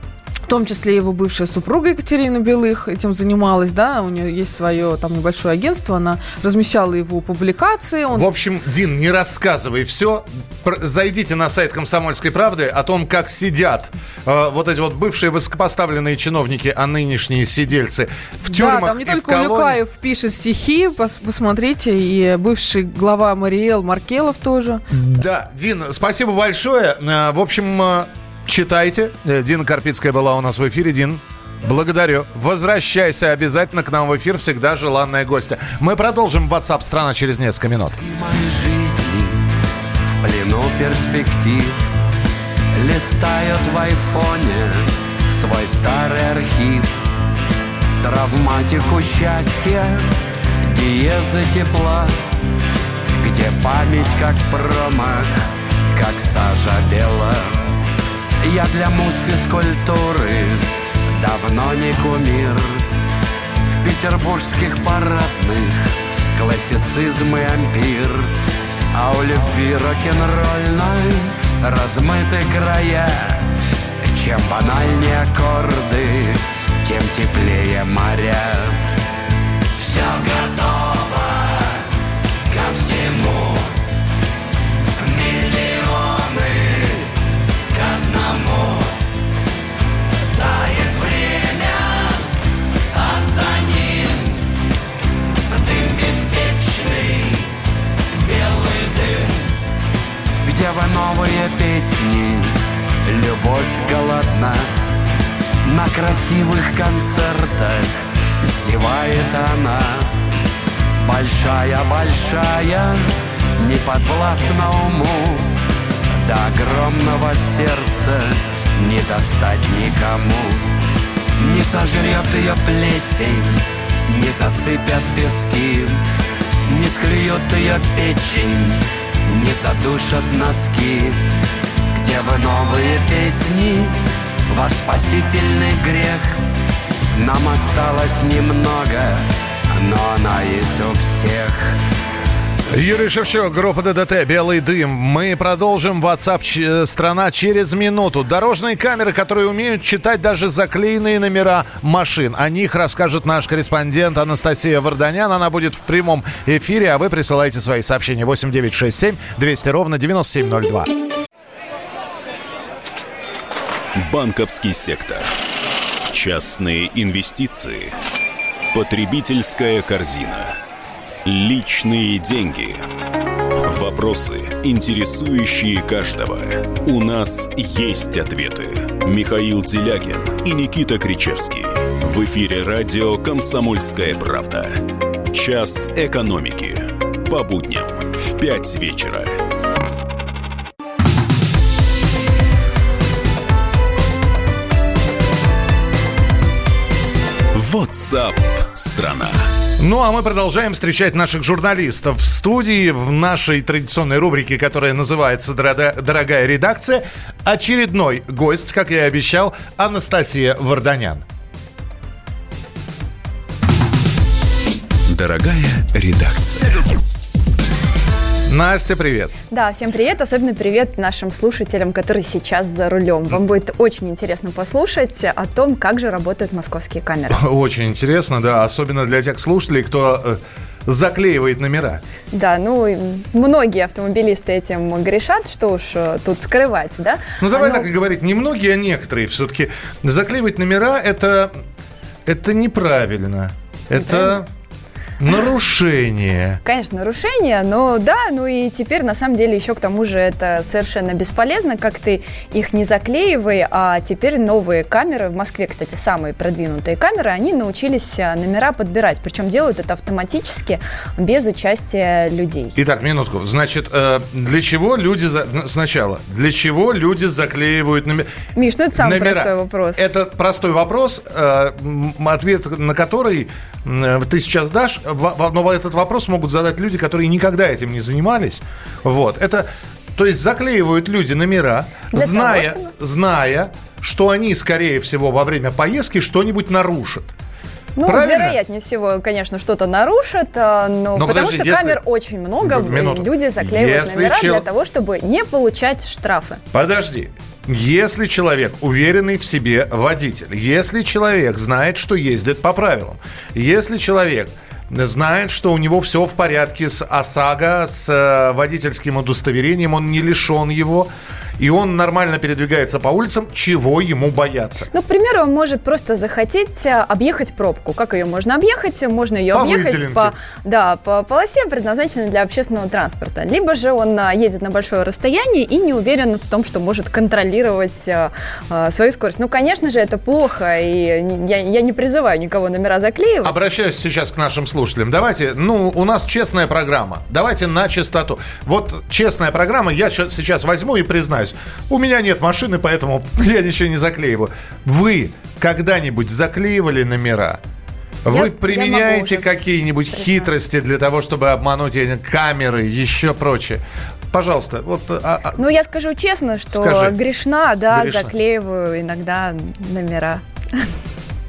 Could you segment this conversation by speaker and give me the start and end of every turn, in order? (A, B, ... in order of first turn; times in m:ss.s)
0:00.5-0:08.2 A
0:08.1-0:19.8 B
0:18.4-0:24.8 A
0:24.9-0:38.0 B
0:38.0-0:39.4 C
0:40.1-0:41.8 C
0:42.7-0:46.9 C
0:48.0-0:50.1 C
0:50.6-0:52.1 C
0:53.2-0:55.3 C
0:55.9-0:57.6 C
0:58.4-1:02.8 C
1:03.6-1:08.3 C
1:08.9-1:13.4 C
1:14.0-1:18.8 C
1:19.8-1:21.8 C
1:22.5-1:23.7 C
1:25.0-1:27.0 C
1:27.7-1:28.9 C
1:30.4-1:32.2 C
1:33.0-1:34.2 C
1:35.5-1:37.4 C
1:38.2-1:39.3 C
1:40.4-1:44.7 C
1:45.6-1:50.1 C
1:51.0-1:55.6 C
1:56.2-2:00.7 C
2:01.4-2:06.0 C
2:06.7-2:11.2 C
2:11.9-2:14.0 C
2:14.5-2:16.4 C
2:17.1-2:21.8 C
2:22.7-2:40.9 B
2:44.0-2:45.3 D
2:46.1-2:47.9 D
2:48.7-2:50.5 D
2:51.2-2:52.8 D
2:53.6-3:09.4 D
3:17.5-3:19.4 D
3:19.8-3:31.2 B
3:35.1-3:36.8 D
3:38.5-3:39.3 B
3:39.5-3:47.4 E
3:47.3-3:52.0 B
3:52.3-3:57.9 E
3:57.4-4:01.5 B
4:02.2-4:04.4 B
4:03.9-4:04.4 E
4:05.2-4:06.6 B
4:06.6-4:22.8 E
4:22.8-4:28.3 B
4:28.6-4:30.0 E
4:29.0-4:47.3 B
4:42.1-4:42.9 E
4:48.0-4:56.6 E
4:48.0-4:48.6 B
4:51.2-4:52.0 B
4:52.6-4:54.6 B
4:56.7-5:14.9 B
5:14.9-5:33.6 E
5:19.5-5:20.3 B
5:33.4-5:47.6 B
5:48.2-5:53.8 B
5:48.3-5:49.5 E
5:50.1-5:50.5 E
5:54.3-5:55.6 B
5:55.6-6:00.8 E
5:56.7-5:57.1 B
5:57.9-5:58.3 B